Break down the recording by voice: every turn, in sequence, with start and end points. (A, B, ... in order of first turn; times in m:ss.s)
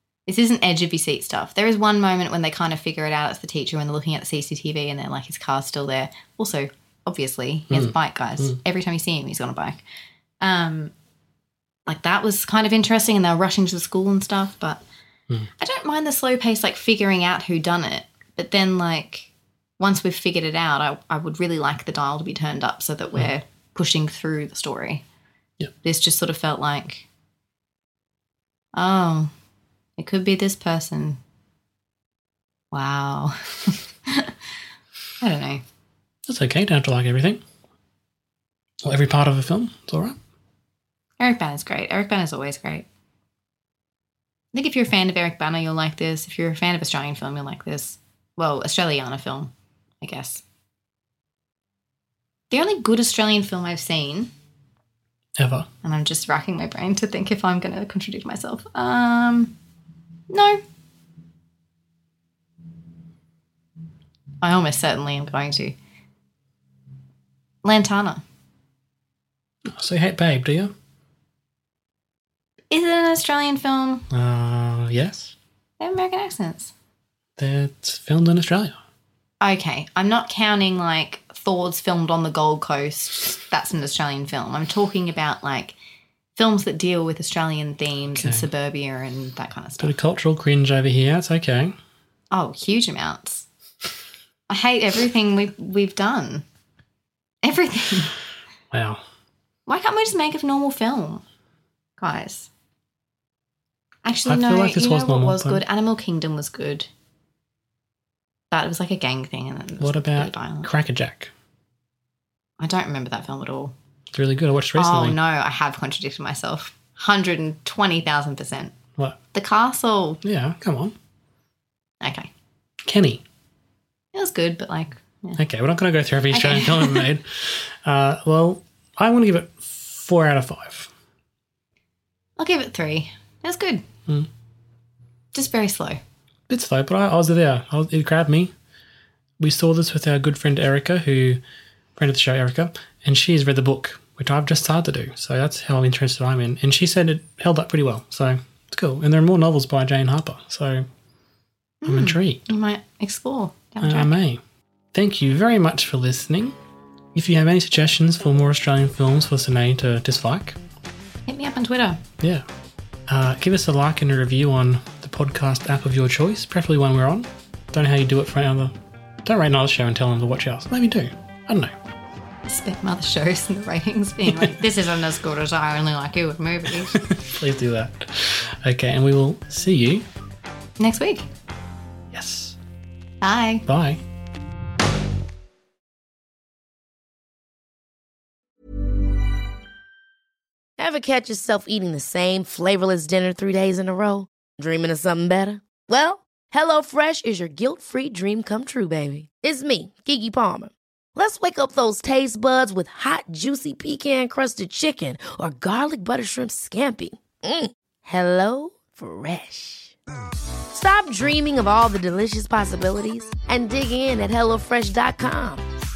0:00.3-0:09.8 A
0:07.7-0:08.6 B
0:10.4-0:10.9 A
0:11.8-0:14.8 A
0:15.6-0:25.0 A
0:25.8-0:27.1 A
0:28.7-0:29.3 A
0:30.0-0:31.2 A
0:32.7-0:34.3 A
0:35.2-0:35.6 A
0:36.2-0:37.4 B
0:38.8-0:40.2 B
0:41.2-0:42.8 A
0:44.5-0:49.5 A
0:50.0-0:50.4 A
0:52.5-0:54.3 A
0:55.4-0:55.7 B
0:55.8-0:59.5 A
1:00.3-1:00.6 A
1:04.4-1:05.7 A
1:07.6-1:08.2 A
1:09.7-1:10.7 B
1:12.7-1:14.0 A
1:14.1-1:15.3 B
1:15.8-1:16.7 A
1:17.4-1:18.8 B
1:19.4-1:25.8 A
1:26.4-1:29.9 A
1:28.1-1:28.5 B
1:29.8-1:31.7 B
1:32.3-1:33.5 A
1:34.5-1:36.4 A
1:37.4-1:38.2 A
1:38.7-1:39.0 B
1:39.6-1:41.2 A
1:42.0-1:42.5 A
1:44.0-1:46.9 A
1:44.3-1:45.6 B
1:48.5-1:50.7 A
1:49.8-1:51.3 B
1:52.6-1:53.7 A
1:54.1-1:55.2 B
1:54.8-1:58.7 A
1:59.3-2:00.2 A
2:00.2-2:00.9 B
2:02.0-2:02.3 A
2:02.8-2:03.2 B
2:04.1-2:05.4 A
2:05.4-2:10.9 B
2:06.3-2:07.1 A
2:12.4-2:13.8 A
2:15.3-2:16.0 A
2:16.5-2:18.5 B
2:19.4-2:21.4 B
2:22.0-2:30.9 B
2:31.8-2:34.1 A
2:31.8-2:32.5 B
2:33.8-2:34.4 B
2:34.9-2:36.6 B
2:37.1-2:40.6 B
2:41.3-2:42.0 A
2:43.1-2:48.7 B
2:49.2-2:51.7 B
2:52.4-2:57.0 A
2:54.2-2:54.6 B
2:56.9-3:00.0 B
3:00.8-3:01.3 A
3:02.1-3:02.6 B
3:03.2-3:03.6 A
3:03.6-3:04.0 B
3:10.8-3:29.9 C
3:30.7-3:35.6 C